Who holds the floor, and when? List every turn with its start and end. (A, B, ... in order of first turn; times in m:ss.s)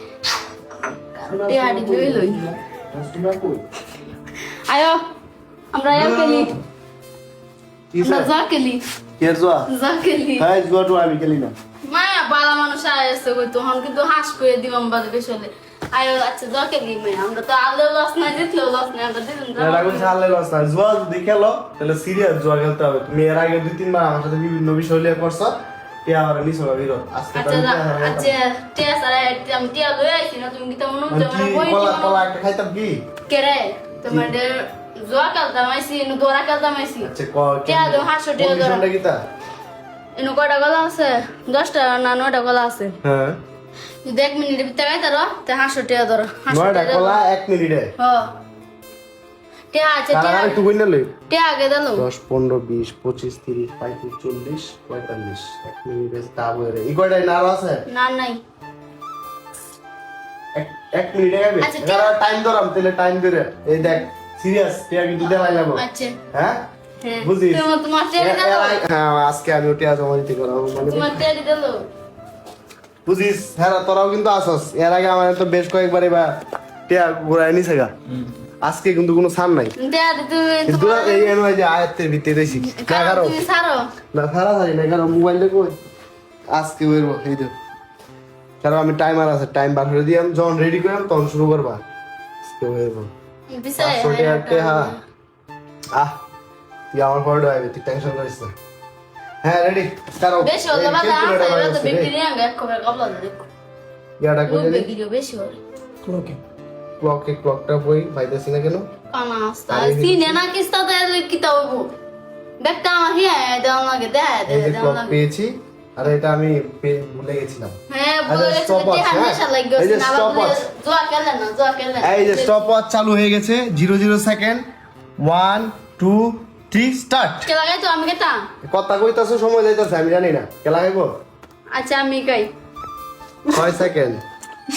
0:00.8-0:02.4 A
0:01.2-0:03.6 B
0:04.7-0:05.0 A
0:05.7-0:06.5 A
0:05.9-0:06.6 B
0:07.9-0:08.3 B
0:08.0-0:08.8 A
0:09.2-0:09.7 B
0:09.7-0:10.4 A
0:10.4-0:11.5 B
0:11.9-0:20.1 A
0:19.6-0:28.4 B
0:27.3-0:32.2 A
0:31.1-0:33.0 B
0:33.3-0:37.1 A
0:37.0-0:39.2 B
0:37.6-0:38.8 A
0:40.2-0:43.0 A
0:43.0-0:43.4 B
0:44.0-0:47.2 A
0:46.5-0:47.9 B
0:48.0-0:48.3 A
0:49.7-0:50.6 A
0:50.1-0:51.1 B
0:51.3-0:52.0 A
0:52.0-0:57.8 B
0:57.9-0:58.4 A
1:00.5-1:06.6 B
1:01.6-1:02.1 A
1:05.2-1:06.2 A
1:07.0-1:08.8 A
1:07.2-1:11.2 B
1:10.9-1:11.9 A
1:13.0-1:16.3 B
1:16.9-1:17.9 B
1:18.6-1:19.7 B
1:19.8-1:21.3 A
1:20.6-1:23.4 B
1:22.5-1:23.9 A
1:24.1-1:25.7 B
1:26.5-1:27.5 B
1:28.6-1:31.8 B
1:32.5-1:33.1 B
1:33.5-1:35.0 A
1:33.8-1:34.9 B
1:35.9-1:36.2 B
1:36.9-1:38.5 B
1:39.4-1:42.1 B
1:40.4-1:43.5 A
1:44.2-1:44.9 B
1:44.5-1:45.6 A
1:47.0-1:48.9 B
1:49.1-1:51.9 A
1:49.7-1:50.4 B
1:52.6-1:55.2 A
1:54.5-1:57.7 B
1:57.9-2:02.7 A
1:58.2-2:00.6 B
2:02.0-2:04.6 B
2:05.2-2:07.5 B
2:07.4-2:08.5 A
2:08.6-2:11.1 B
2:11.7-2:12.5 A
2:13.5-2:14.2 B